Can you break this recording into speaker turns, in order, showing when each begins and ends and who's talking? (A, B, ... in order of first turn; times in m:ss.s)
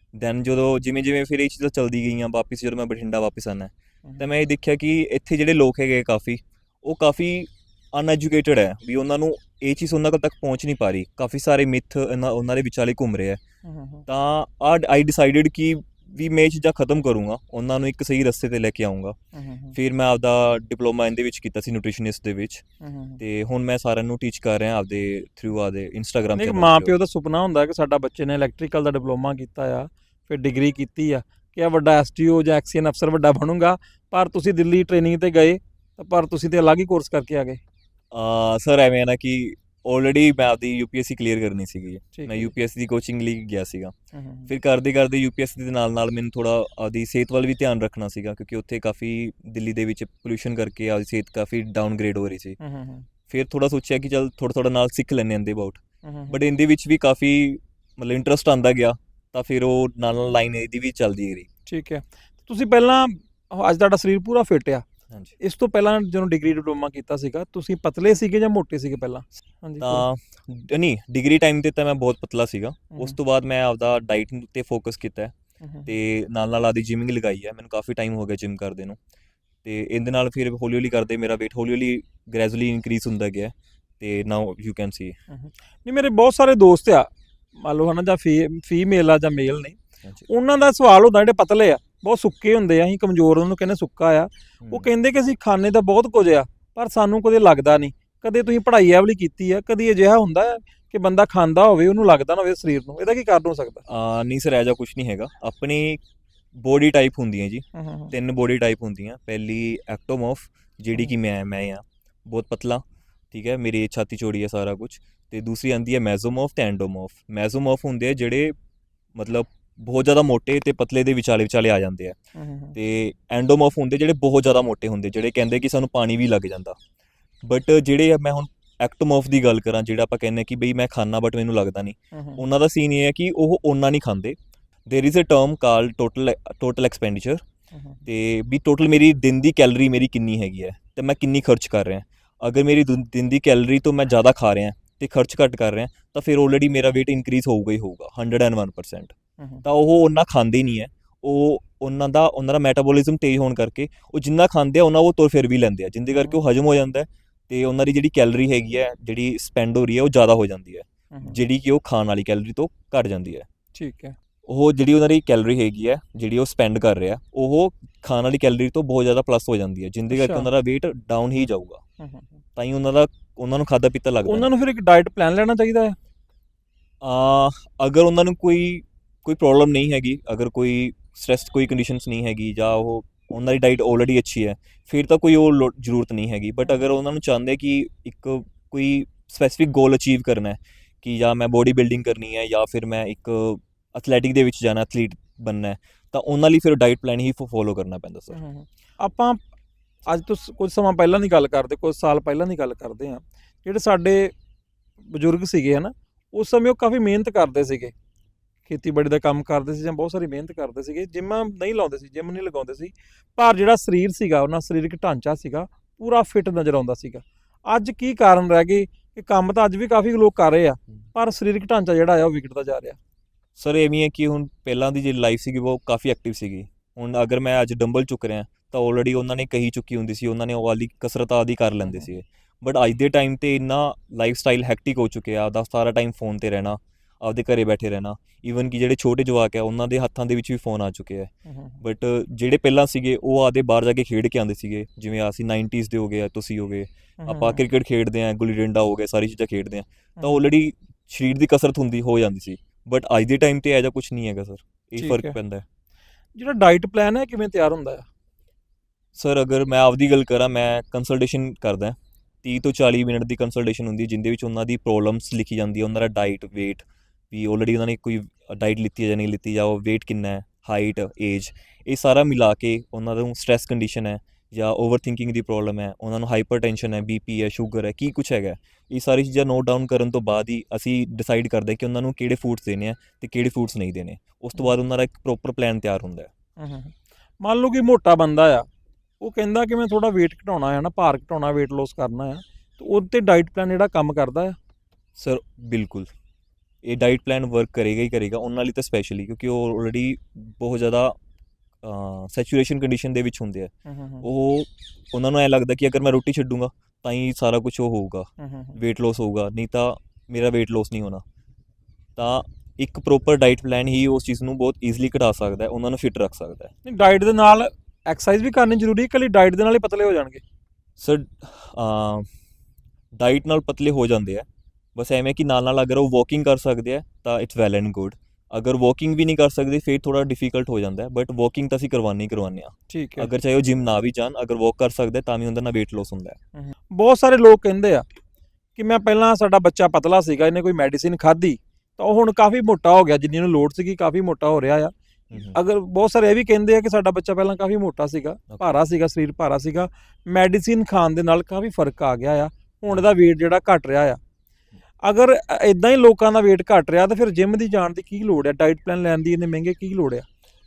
0:00.1-0:13.4 A
0:13.6-0:14.0 B
0:14.1-0:19.2 A
0:19.3-0:19.8 B
0:19.7-0:22.6 A
0:22.8-0:23.2 B
0:23.2-0:27.0 A
0:26.4-0:37.6 B
0:38.1-0:44.0 A
0:42.1-0:42.5 B
0:44.1-0:44.5 B
0:44.5-0:52.6 A
0:52.6-0:53.1 B
0:53.3-1:01.5 A
0:56.0-0:56.4 B
1:01.7-1:04.8 B
1:05.4-1:10.1 B
1:09.8-1:15.3 A
1:15.6-1:15.9 B
1:15.9-1:19.0 A
1:19.6-1:25.2 A
1:25.3-1:29.8 B
1:30.3-1:43.8 B
1:34.6-1:34.9 A
1:43.9-1:46.0 A
1:46.5-1:58.6 A
1:47.7-1:48.1 B
1:59.2-2:02.2 A
2:02.4-2:02.8 B
2:02.8-2:06.8 A
2:07.4-2:17.4 A
2:12.1-2:12.4 B
2:17.7-2:18.1 B
2:18.1-2:43.5 A
2:29.4-2:29.6 B
2:36.1-2:36.4 B
2:41.1-2:41.4 B
2:43.8-2:44.2 B
2:44.5-2:51.8 A
2:50.1-2:50.5 B
2:52.0-2:52.3 B
2:52.6-2:54.5 A
2:54.3-2:56.0 B
2:57.0-3:18.4 A
3:18.3-3:19.4 B
3:20.1-3:24.3 B
3:25.0-3:27.9 B
3:28.7-3:43.0 B
3:43.6-4:15.6 A
3:51.8-3:52.1 B
4:01.5-4:01.8 B
4:07.2-4:07.6 B
4:15.0-4:15.4 B
4:16.4-4:18.1 B
4:19.2-4:46.3 A
4:46.6-4:48.6 B
4:49.2-4:54.6 B
4:55.2-4:56.1 A
4:56.8-5:01.2 A
5:01.8-5:11.2 A
5:03.9-5:04.3 B
5:08.4-5:08.8 B
5:12.2-5:16.7 A
5:16.8-5:20.4 B
5:21.0-5:22.3 A
5:23.2-5:36.4 A
5:32.9-5:33.3 B
5:36.6-5:38.0 B
5:38.8-5:54.2 B
5:45.3-5:45.6 A
5:55.0-6:00.3 B